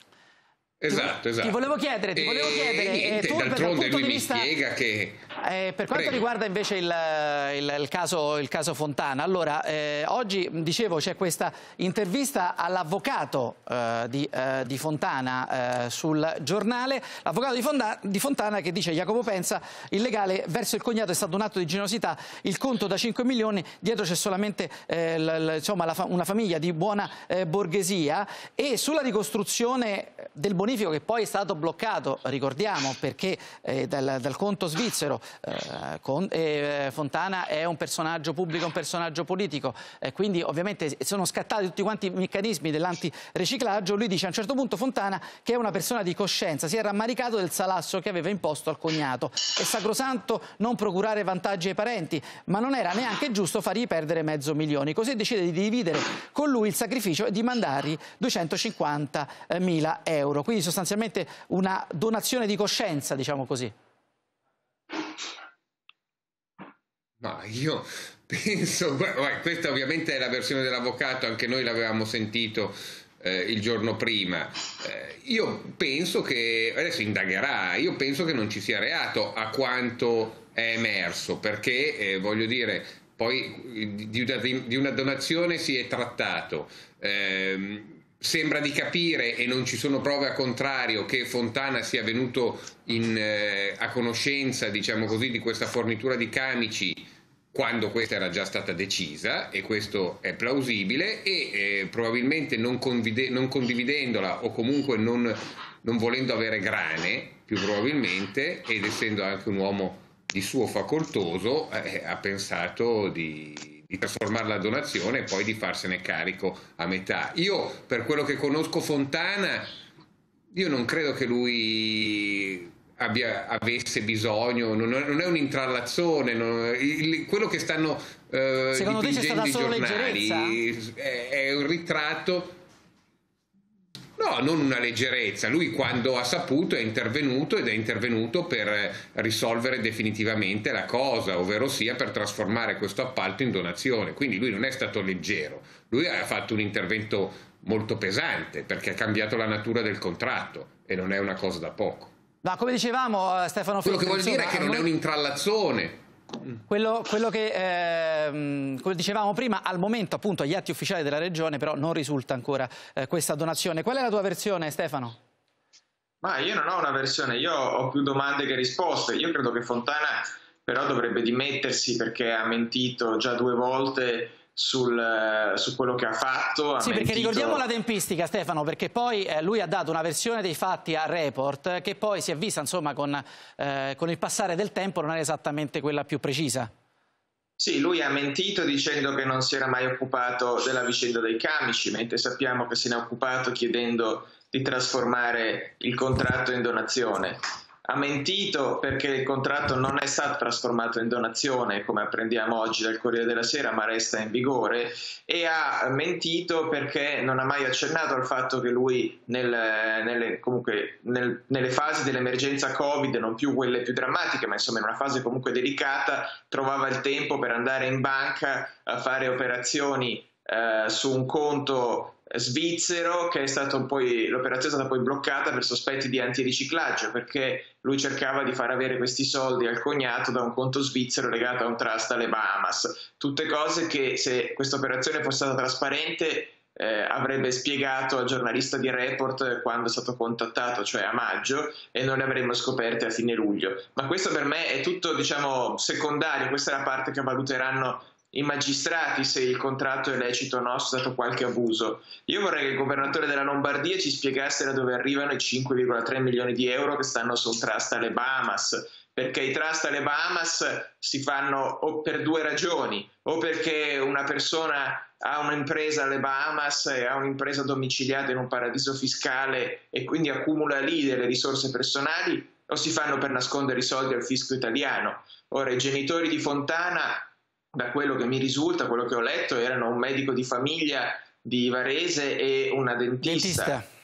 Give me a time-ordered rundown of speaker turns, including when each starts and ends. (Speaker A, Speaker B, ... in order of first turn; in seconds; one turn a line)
Speaker A: 0.8-1.6
Speaker B: 0.9-4.5
Speaker A: 2.1-5.2
Speaker B: 5.4-63.7
Speaker A: 5.9-6.2
Speaker A: 67.2-119.7
Speaker A: 120.5-132.6
Speaker B: 128.7-130.6
Speaker A: 134.2-152.1
Speaker B: 152.4-154.9
Speaker A: 153.8-156.0
Speaker B: 156.7-165.2
Speaker C: 166.2-177.6
Speaker B: 176.8-186.7
Speaker C: 187.6-283.8
Speaker B: 283.2-283.9